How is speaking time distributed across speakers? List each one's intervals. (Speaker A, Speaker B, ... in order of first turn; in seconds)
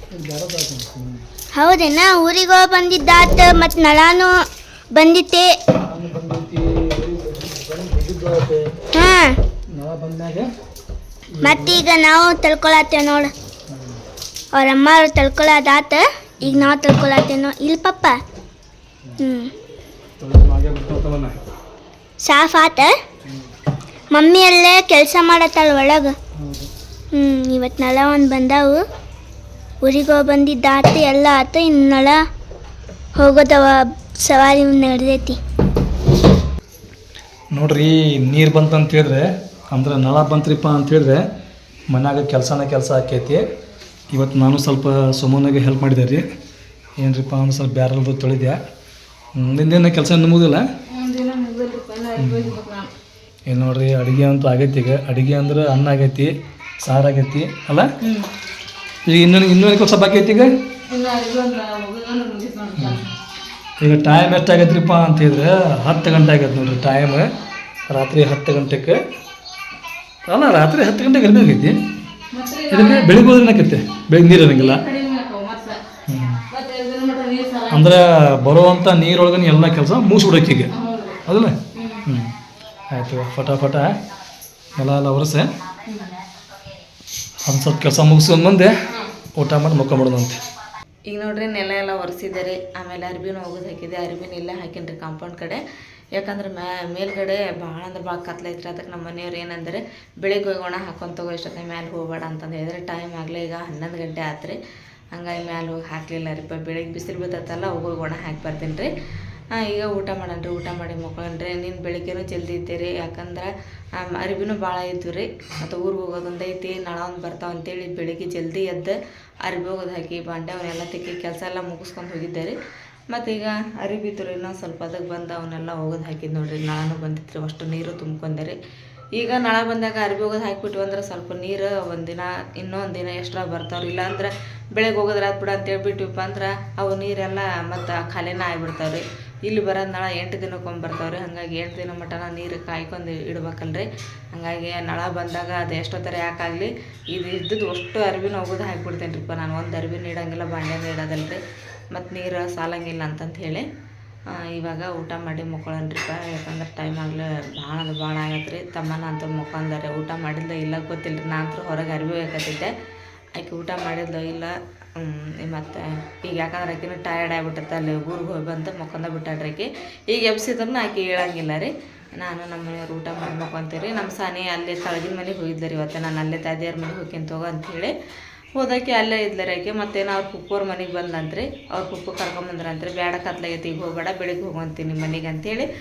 Speaker A: 0.1-1.2, 5.8-8.6, 9.7-10.5, 11.3-11.8, 13.7-14.0, 16.4-16.7, 20.2-21.4, 26.4-26.7, 37.5-41.2, 41.9-43.4, 44.1-46.2, 47.0-48.6, 49.3-50.6, 52.2-52.6, 53.5-57.9, 59.1-60.5, 62.8-63.0, 63.8-67.3, 67.9-69.0, 70.3-71.8, 72.7-74.8, 76.1-76.4, 77.7-80.7, 81.2-82.3, 82.9-83.9, 84.8-85.5, 87.4-88.7, 89.3-90.4
Speaker B: 1.5-5.6, 8.9-9.4, 11.4-13.3, 14.5-16.1, 16.6-18.2, 19.2-19.5, 22.2-22.9, 24.1-26.1, 27.1-28.8, 29.8-32.2, 33.1-35.4
Speaker C: 50.9-52.9, 60.9-63.1, 72.3-73.1, 74.5-75.8, 76.5-77.8, 80.7-81.2, 91.1-95.6, 96.2-104.5, 105.1-108.9, 109.6-113.5, 114.0-122.5, 123.1-128.6, 129.2-151.4, 151.9-153.6, 154.5-162.7, 163.4-177.9, 178.6-185.7